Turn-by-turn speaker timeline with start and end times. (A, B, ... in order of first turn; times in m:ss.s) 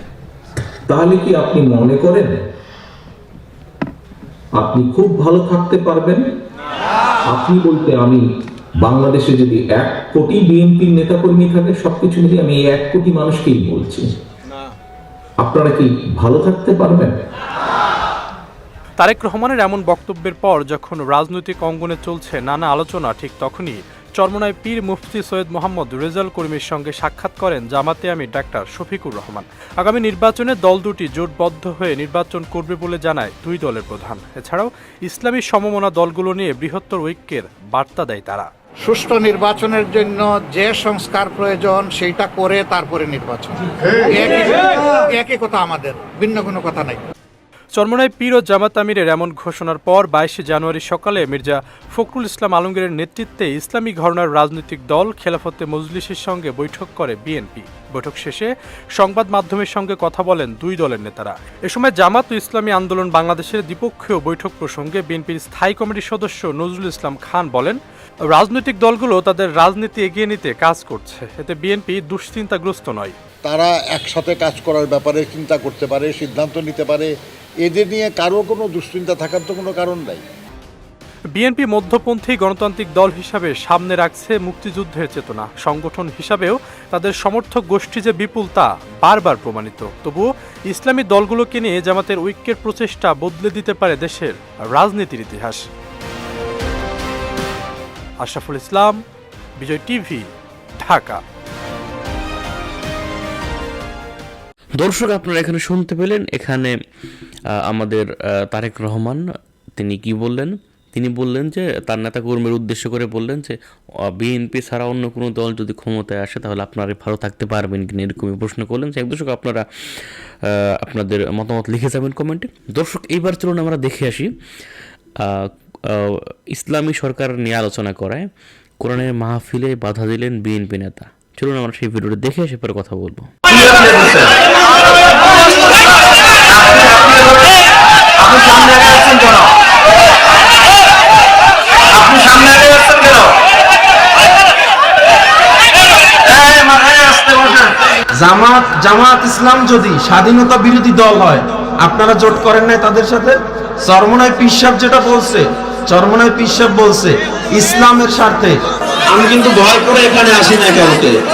0:00.9-0:02.4 A
0:04.6-0:06.3 A
0:07.3-0:08.2 A
0:08.8-0:14.1 A
0:15.4-0:17.2 A
0:19.0-0:38.5 B
0:38.8-0:47.0 C
0:47.8-1:07.8 B
1:08.3-1:13.1 B
1:13.4-1:17.1 D
1:17.6-1:20.2 D
1:21.3-1:35.7 B
1:38.2-1:39.0 B
1:39.6-1:40.2 B
1:40.8-1:41.2 B
1:44.8-1:46.7 E
1:47.6-1:49.2 E
1:49.8-1:53.6 E
1:54.1-2:04.3 E
2:05.2-2:08.3 E
2:08.8-2:13.3 E
2:13.5-2:14.3 F
2:15.1-2:15.7 F
2:16.5-2:17.6 F
2:18.2-2:19.5 F
2:21.9-2:23.3 F
2:26.2-2:38.6 F
2:39.1-2:41.1 F